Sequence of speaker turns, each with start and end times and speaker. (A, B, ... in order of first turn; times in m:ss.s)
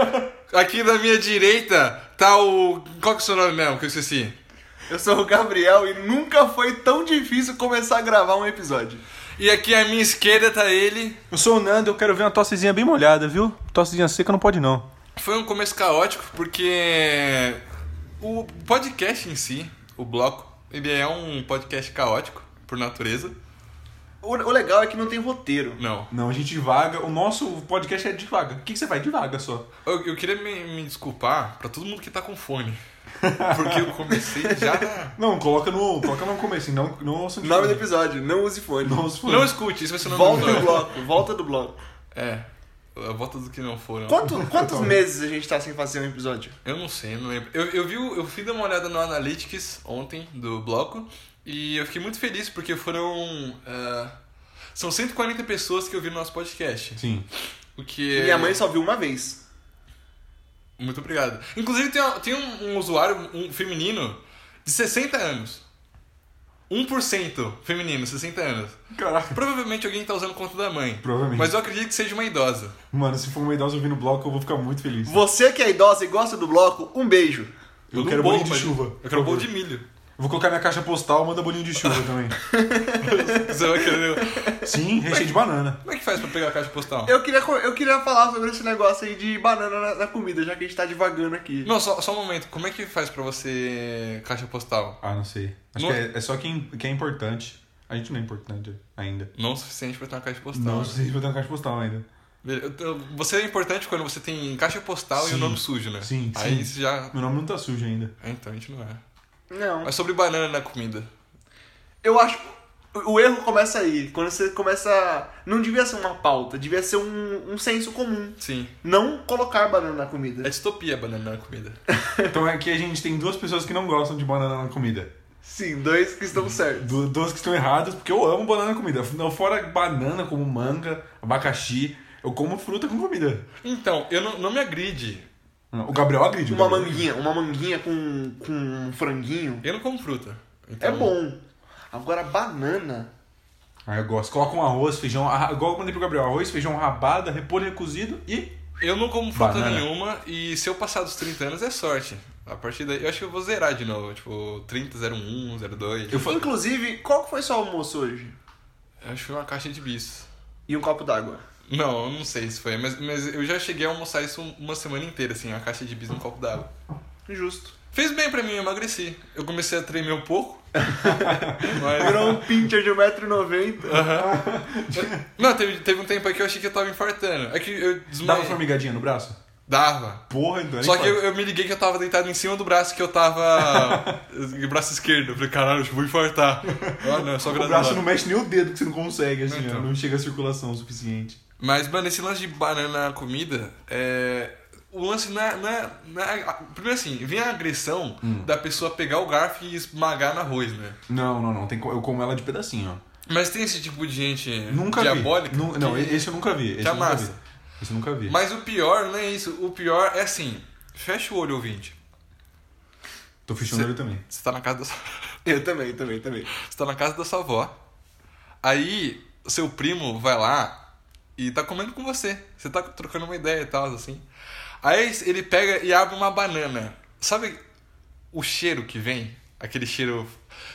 0:00.5-0:04.4 A
0:04.9-0:09.0 B
0:09.4-0:11.2 A
0:11.3-0:14.9 C
0:15.2-0:17.6 A
0:18.2-0:23.4 A
0:24.2-0:25.8 B
0:25.8-0:26.1 A
0:26.1-0:29.7 C
0:29.8-0:32.8 A
0:33.2-0:33.9 C
0:33.4-0:35.2 A
0:34.4-0:34.8 B
0:35.2-0:37.9 C
0:37.4-0:39.1 B
0:38.8-0:39.6 C
0:39.2-0:40.9 A
0:40.0-0:41.8 B
0:42.1-0:44.4 A
0:44.1-0:46.6 B
0:44.4-0:45.0 C
0:46.6-0:54.1 A
0:54.8-0:57.0 A
0:57.0-0:57.3 C
0:57.8-0:58.6 A
0:58.1-0:59.4 B
1:00.8-1:05.6 A
1:06.7-1:08.8 A
1:08.9-1:09.4 C
1:09.3-1:12.8 A
1:11.0-1:11.5 C
1:12.9-1:15.2 C
1:15.1-1:17.5 B
1:17.9-1:19.5 C
1:17.9-1:19.9 A
1:20.2-1:22.4 C
1:22.4-1:24.7 B
1:23.0-1:25.3 A
1:24.6-1:25.8 C
1:25.8-1:27.2 A
1:27.1-1:31.7 B
1:31.6-1:35.0 A
1:35.0-1:39.3 C
1:35.8-1:36.0 A
1:39.4-1:41.0 A
1:40.5-1:42.0 C
1:42.4-1:47.1 A
1:45.2-1:48.1 C
1:48.2-1:49.0 A
1:49.5-1:49.9 B
1:49.8-1:51.1 A
1:52.0-2:00.5 B
1:58.4-1:58.7 A
2:00.4-2:01.8 A
2:01.9-2:02.4 B
2:02.3-2:05.1 C
2:05.4-2:07.0 B
2:06.8-2:13.4 C
2:13.6-2:15.3 A
2:15.7-2:17.1 C
2:16.5-2:19.6 B
2:19.6-2:21.2 A
2:20.8-2:23.1 B
2:23.9-2:28.6 C
2:28.8-2:36.3 A
2:29.3-2:29.9 C
2:36.1-2:36.4 C
2:36.1-2:38.4 B
2:39.0-2:40.3 A
2:40.7-2:41.4 B
2:41.7-2:46.7 A
2:47.3-2:47.8 B
2:47.9-2:50.6 A
2:50.8-2:54.1 B
2:51.2-2:51.8 C
2:51.6-2:52.4 A
2:53.8-2:58.6 A
2:54.1-2:55.2 C
2:58.2-2:59.4 C
2:59.7-3:00.3 A
3:00.3-3:01.2 C
3:00.8-3:08.0 A
3:03.6-3:04.2 C
3:06.8-3:11.4 C
3:09.4-3:09.9 A
3:11.6-3:21.0 A
3:18.2-3:18.5 C
3:21.1-3:23.0 C
3:23.3-3:27.4 A
3:24.7-3:28.4 C
3:28.3-3:32.0 A
3:33.5-3:34.2 C
3:33.7-3:35.1 A
3:35.4-3:36.5 B
3:36.5-3:37.8 A
3:38.6-3:40.9 A
3:41.4-3:44.2 A
3:44.8-3:47.6 A
3:48.3-3:50.4 A